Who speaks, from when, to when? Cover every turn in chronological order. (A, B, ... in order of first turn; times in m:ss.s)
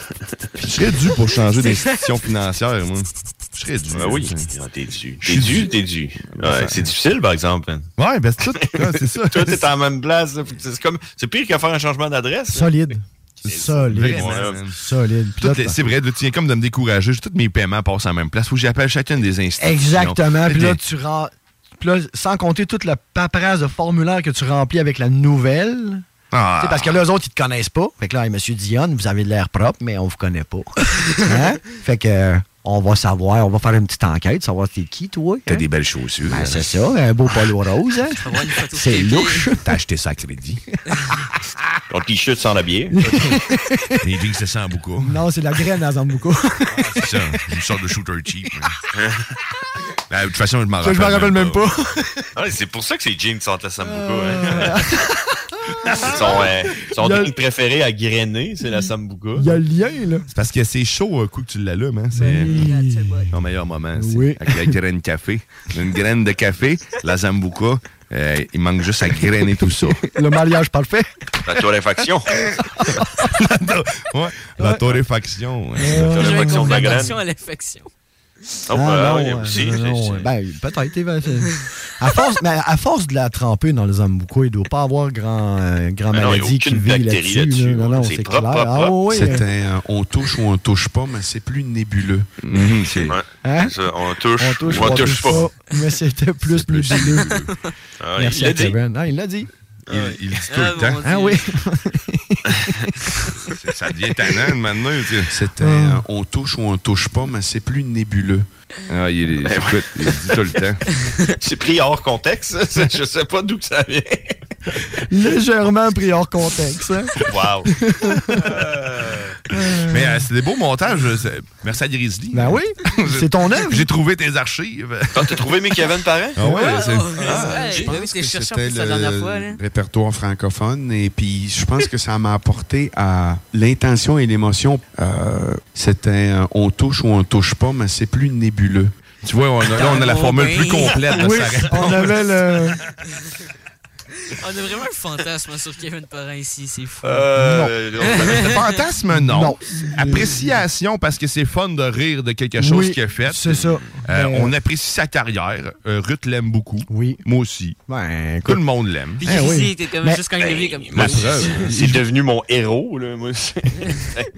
0:00.6-0:04.5 A
0:03.9-0:07.9 B
0:05.2-0:05.7 A
0:06.3-0:06.8 A
0:08.0-0:09.6 A
0:08.6-0:12.7 B
0:12.5-0:15.8 C
0:13.4-0:14.6 B
0:13.8-0:14.8 A
0:15.4-0:20.8 A
0:19.6-0:26.0 C
0:26.3-0:27.0 A
0:26.6-0:35.6 C
0:35.5-0:36.7 A
0:36.3-0:39.6 C
0:38.2-0:39.5 D
0:39.6-0:40.6 A
0:41.9-0:43.0 B
0:43.0-0:44.0 C
0:44.0-0:45.2 A
0:45.0-0:46.9 C
0:47.0-0:48.7 A
0:50.1-0:51.6 A
0:50.8-0:52.2 C
0:52.4-0:54.8 B
0:53.8-0:57.3 C
0:56.0-0:59.6 B
0:59.4-1:00.2 C
1:00.3-1:02.5 A
1:02.2-1:03.2 C
1:02.2-1:03.3 D
1:03.3-1:10.0 A
1:04.0-1:04.8 C
1:09.4-1:11.1 C
1:11.4-1:12.3 B
1:12.8-1:13.3 C
1:13.4-1:16.2 A
1:14.6-1:15.0 C
1:15.8-1:16.9 C
1:15.9-1:17.2 B
1:16.0-1:17.9 D
1:18.7-1:20.3 B
1:18.7-1:29.4 C
1:26.1-1:29.0 B
1:29.1-1:32.3 E
1:32.4-1:33.2 A
1:33.0-1:35.5 B
1:33.4-1:33.8 C
1:34.4-1:37.4 C
1:34.8-1:35.2 A
1:36.5-1:37.4 A
1:36.9-1:37.5 D
1:38.0-1:38.8 B
1:38.2-1:39.5 C
1:39.9-1:40.2 B
1:39.9-1:41.0 A
1:40.5-1:41.4 D
1:41.0-1:42.9 C
1:43.5-1:45.3 A
1:45.3-1:48.5 E
1:45.6-1:46.0 C
1:48.9-1:50.8 A
1:49.4-1:50.4 B
1:51.3-1:54.4 B
1:55.1-1:57.1 C
1:57.2-1:57.7 B
1:57.7-1:58.6 C
1:58.4-1:59.4 B
1:59.5-2:00.2 C
1:59.8-2:05.5 A
2:02.3-2:03.9 C
2:05.2-2:06.4 B
2:06.4-2:07.6 A
2:06.4-2:09.6 D
2:07.2-2:07.9 B
2:07.8-2:19.0 E
2:19.2-2:22.2 A
2:19.7-2:21.9 D
2:21.1-2:22.8 C
2:24.3-2:27.3 D
2:27.0-2:28.6 B
2:27.4-2:27.7 C
2:28.1-2:28.5 D
2:28.4-2:37.8 A
2:29.2-2:30.6 C
2:32.6-2:34.5 C
2:36.9-2:37.2 C
2:37.9-2:38.6 C
2:38.5-2:39.2 A
2:39.2-2:40.2 C
2:39.2-2:41.7 D
2:40.4-2:44.3 B
2:41.0-2:42.0 A